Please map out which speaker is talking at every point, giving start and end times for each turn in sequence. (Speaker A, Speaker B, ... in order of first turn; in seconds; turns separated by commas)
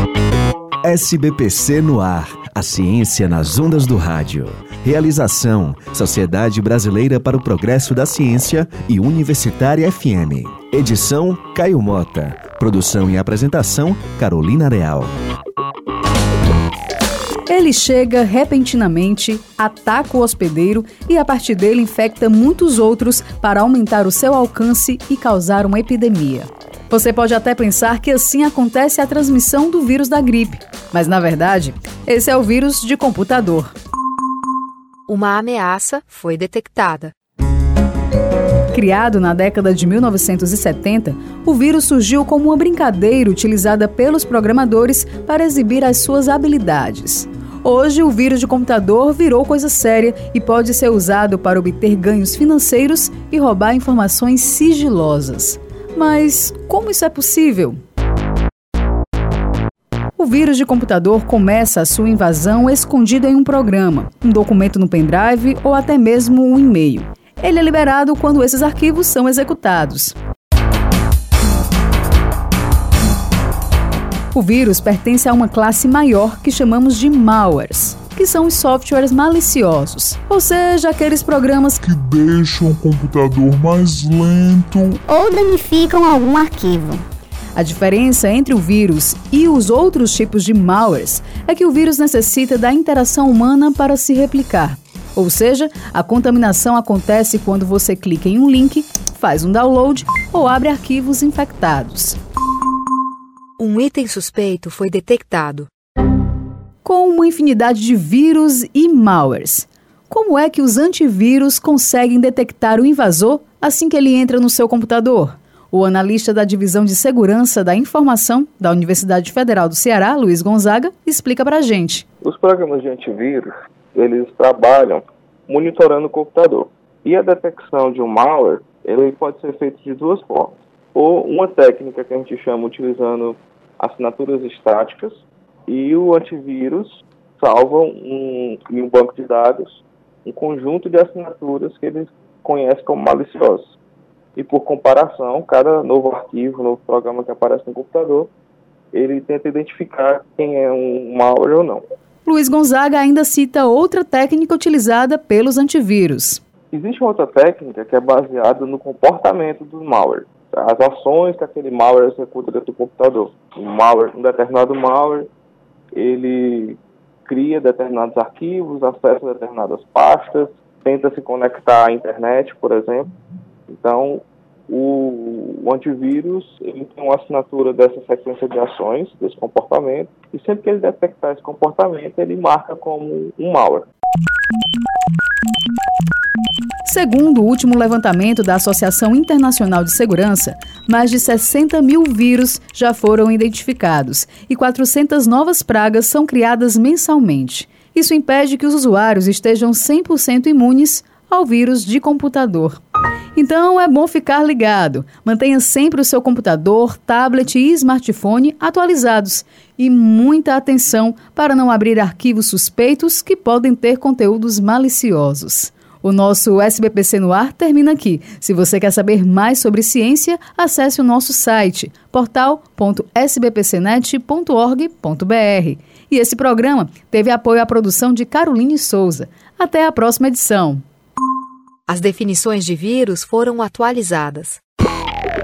Speaker A: 0.8-15.1, Speaker B: 17.5-33.7, Speaker C: 35.1-37.1, Speaker B: 38.7-57.8, Speaker B: 60.2-70.2, Speaker B: 74.3-81.8, Speaker D: 81.8-85.0, Speaker E: 85.1-87.0, Speaker B: 87.6-102.2, Speaker C: 103.6-105.7, Speaker B: 106.8-122.0, Speaker F: 122.2-136.9, Speaker F: 137.4-143.7, Speaker F: 144.4-148.3, Speaker F: 148.9-151.8, Speaker B: 152.2-156.4, Speaker F: 156.7-165.3, Speaker F: 166.0-173.1, Speaker F: 173.8-183.9, Speaker B: 186.8-202.8, Speaker B: 203.3-230.8, Speaker C: 231.9-234.6